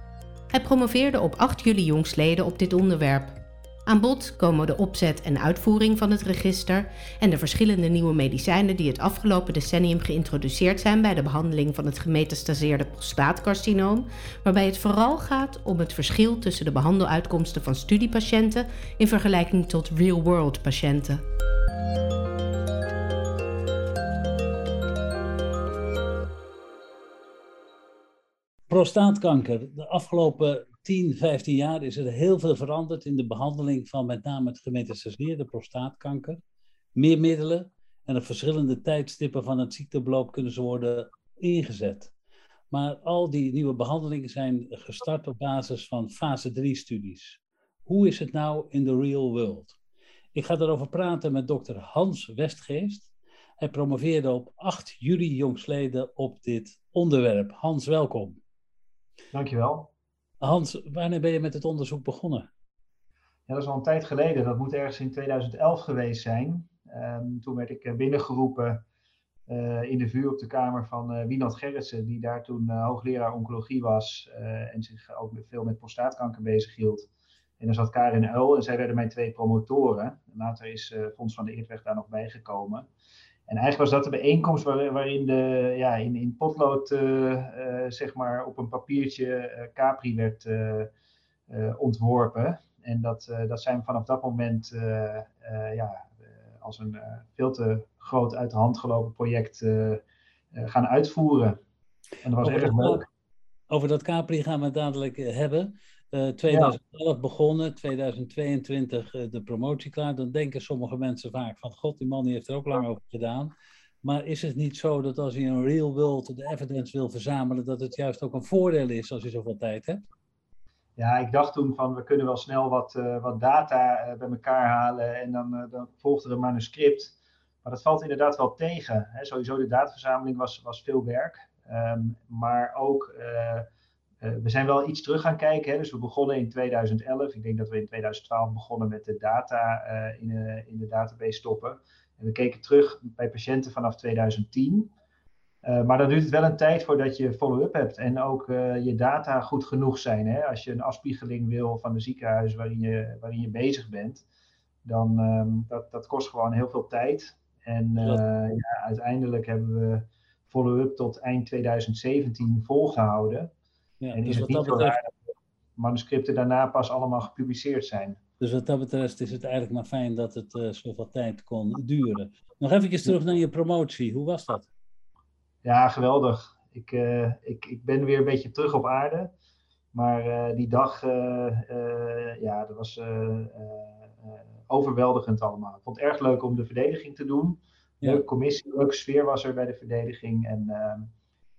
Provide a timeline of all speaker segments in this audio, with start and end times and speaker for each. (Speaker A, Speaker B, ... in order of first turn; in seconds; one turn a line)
Speaker A: 0.5-21.2
Speaker B: 28.7-36.4
Speaker B: 37.0-42.1
Speaker B: 42.7-49.8
Speaker B: 50.3-58.4
Speaker C: 59.3-59.9
Speaker B: 60.4-62.5
Speaker C: 63.5-68.8
Speaker C: 69.5-77.1
Speaker C: 77.6-82.9
Speaker C: 83.5-90.9
Speaker C: 91.5-100.0
Speaker C: 100.5-101.6
Speaker C: 102.2-103.1
Speaker B: 102.4-103.0
Speaker B: 103.7-113.5
Speaker C: 106.5-106.8
Speaker B: 114.0-120.0
Speaker C: 121.0-133.7
Speaker C: 134.2-144.9
Speaker C: 145.6-154.2
Speaker C: 154.8-163.5
Speaker B: 164.0-165.0
Speaker C: 164.1-165.2
Speaker C: 165.8-168.2
Speaker B: 168.4-174.7
Speaker C: 175.6-179.3
Speaker C: 179.9-191.1